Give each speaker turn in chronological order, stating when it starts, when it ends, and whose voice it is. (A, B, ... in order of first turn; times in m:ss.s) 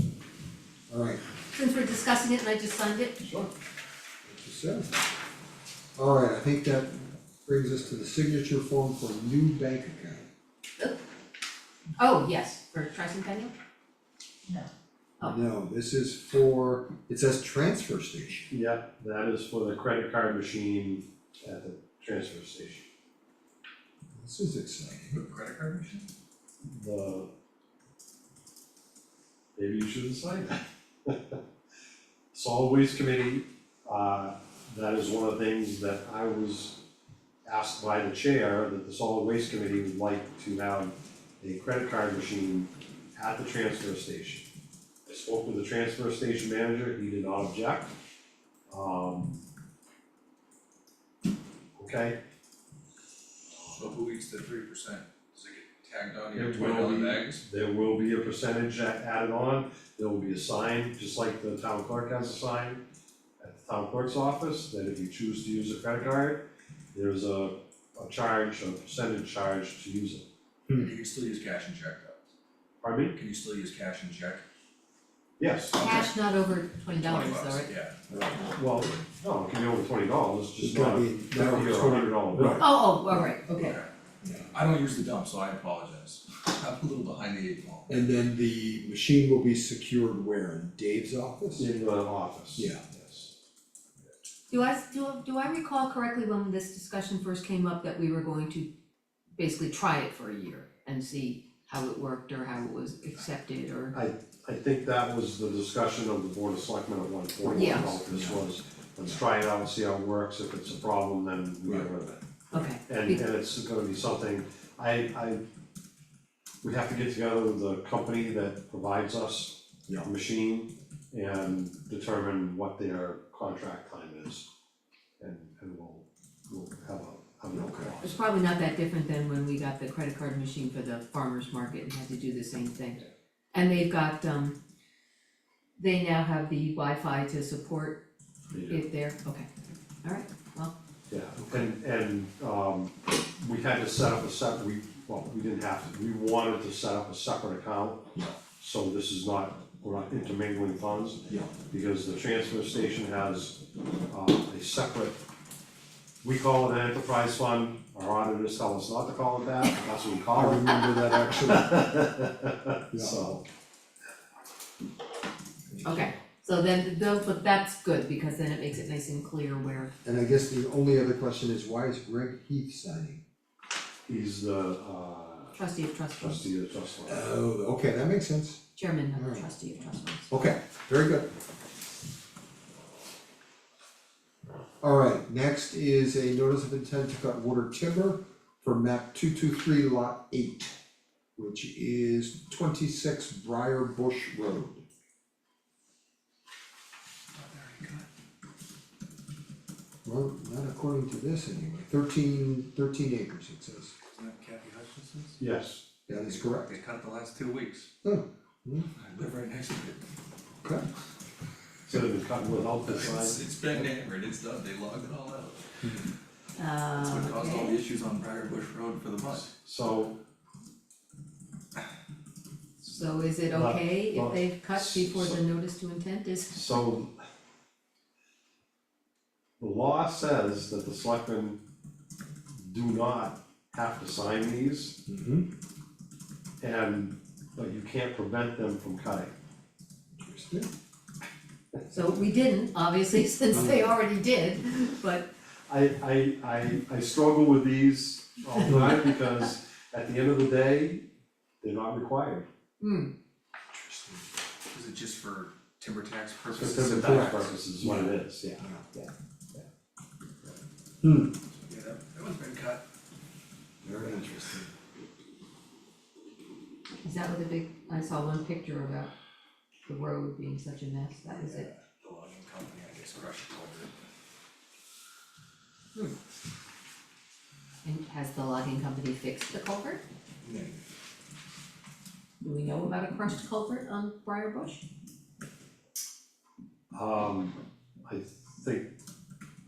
0:00.9-0:01.2 A
0:01.5-0:03.2 B
0:03.2-0:03.5 C
0:04.2-0:05.0 A
0:06.0-0:10.3 A
0:12.0-0:13.5 B
0:15.2-0:18.5 A
0:18.5-0:22.9 C
0:24.1-0:25.2 A
0:24.9-0:26.1 D
0:26.7-0:27.3 C
0:29.6-0:31.4 C
0:32.3-0:36.8 C
0:37.5-0:44.5 C
0:45.1-0:47.9 C
0:48.7-0:49.4 C
0:51.8-0:52.2 C
0:53.7-0:57.4 D
0:56.3-1:02.8 C
1:03.4-1:06.4 C
1:06.9-1:10.2 C
1:10.7-1:12.2 D
1:12.8-1:13.2 C
1:13.2-1:14.4 D
1:15.4-1:15.8 C
1:15.8-1:17.7 B
1:15.8-1:16.1 D
1:16.9-1:18.0 D
1:18.1-1:18.6 A
1:18.5-1:22.6 C
1:20.6-1:22.7 A
1:22.6-1:23.8 B
1:23.5-1:23.9 D
1:24.5-1:28.1 D
1:27.9-1:31.7 A
1:31.6-1:33.3 C
1:32.6-1:32.8 A
1:34.5-1:38.7 B
1:39.4-1:44.0 B
1:43.9-1:52.2 C
1:47.4-1:48.5 A
1:47.6-1:47.9 B
1:52.5-1:53.2 B
1:52.8-1:55.4 C
1:56.6-2:04.5 C
2:05.2-2:08.2 C
2:07.5-2:08.0 A
2:08.0-2:13.0 B
2:13.5-2:14.6 B
2:15.8-2:18.0 B
2:18.5-2:18.8 C
2:18.7-2:19.5 B
2:20.0-2:20.7 B
2:21.1-2:35.2 C
2:31.3-2:31.5 A
2:36.2-2:43.4 C
2:40.3-2:41.8 A
2:42.9-2:43.4 A
2:45.8-2:46.1 A
2:45.8-2:49.9 B
2:50.0-2:53.2 A
2:54.1-2:55.6 C
2:55.6-2:56.4 B
2:56.2-2:57.3 C
2:57.1-2:58.6 A
2:58.8-3:00.3 B
2:59.2-2:59.5 A
3:00.3-3:01.3 A
3:04.8-3:10.8 A
3:11.4-3:14.8 A
3:17.4-3:18.1 D
3:20.0-3:23.9 A
3:24.1-3:25.4 D
3:25.4-3:25.8 C
3:26.1-3:26.7 A
3:26.1-3:27.9 D
3:28.0-3:28.9 A
3:29.0-3:30.0 D
3:31.9-3:33.4 C
3:32.8-3:35.8 D
3:36.6-3:37.8 B
3:37.0-3:39.5 D
3:39.6-3:40.2 C
3:42.8-3:46.6 B
3:43.5-3:45.4 C
3:46.5-3:47.1 C
3:49.6-3:51.6 C
3:52.6-3:55.0 C
3:55.1-3:55.5 A
3:56.6-3:59.3 C
4:00.2-4:00.7 A
4:01.9-4:05.3 B
4:05.7-4:11.0 C
4:11.6-4:12.5 C
4:12.8-4:13.1 B
4:13.7-4:14.3 A
4:14.7-4:17.5 D
4:16.5-4:18.5 C
4:16.9-4:19.1 A
4:21.0-4:21.4 A
4:21.6-4:22.8 D
4:23.8-4:24.7 A
4:27.0-4:29.1 B
4:29.8-4:31.7 B
4:31.3-4:33.9 D
4:37.8-4:40.0 B
4:40.4-4:40.8 D
4:42.4-4:44.8 B
4:46.9-4:47.6 C
4:48.1-4:48.9 C